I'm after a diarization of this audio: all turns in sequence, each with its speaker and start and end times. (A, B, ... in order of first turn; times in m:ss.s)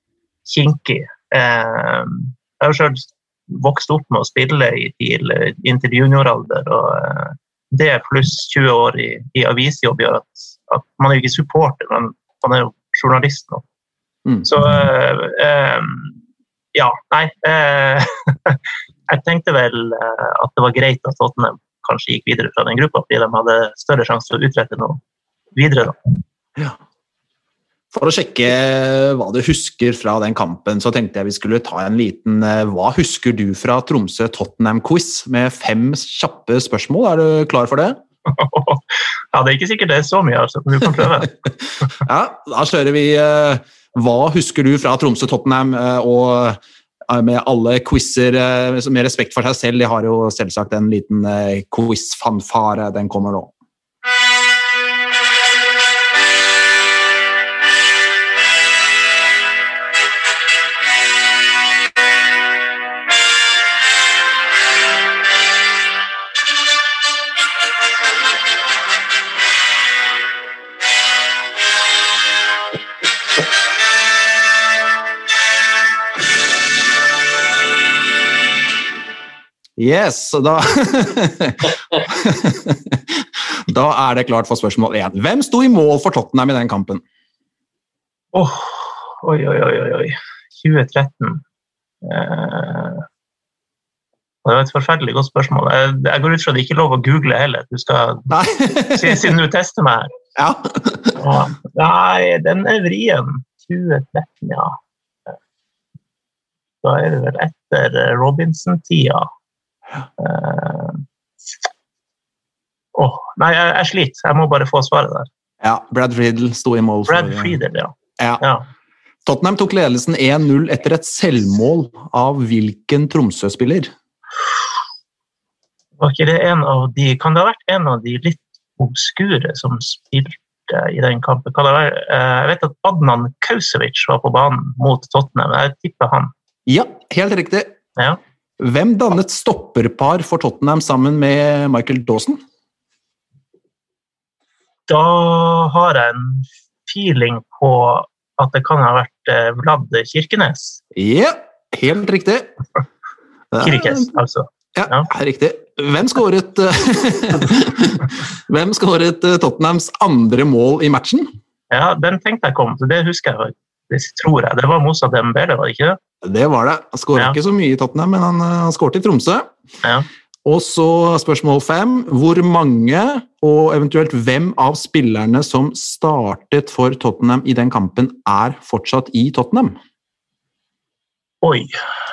0:00.5-0:13.6 A
0:14.4-0:16.2 A
0:16.7-0:18.6 A
0:19.1-0:25.0 A
0:25.5-0:26.0 A
0:27.9-0:38.0 B
0:38.3-0:41.3 A
0:42.0-0:53.5 B
1:19.8-1:27.0 B
1:28.3-1:31.4 A
1:32.0-1:33.0 A
1:34.4-1:38.3 A
1:38.3-1:39.3 B
1:38.8-1:40.1 A
1:40.4-1:41.2 B
1:41.2-1:44.8 A
1:46.8-1:49.3 A
1:50.2-1:51.0 A
1:52.9-1:55.3 A
1:55.6-1:57.5 B
1:57.1-1:58.6 A
1:59.2-2:03.9 B
2:06.0-2:16.3 A
2:16.7-2:17.8 B
2:18.6-2:22.4 B
2:24.9-2:30.8 A
2:30.9-2:32.5 B
2:33.5-2:34.1 B
2:33.6-2:35.1 A
2:34.8-2:41.3 B
2:41.7-2:46.0 A
2:46.2-2:49.5 B
2:50.4-2:59.8 B
3:01.4-3:01.8 A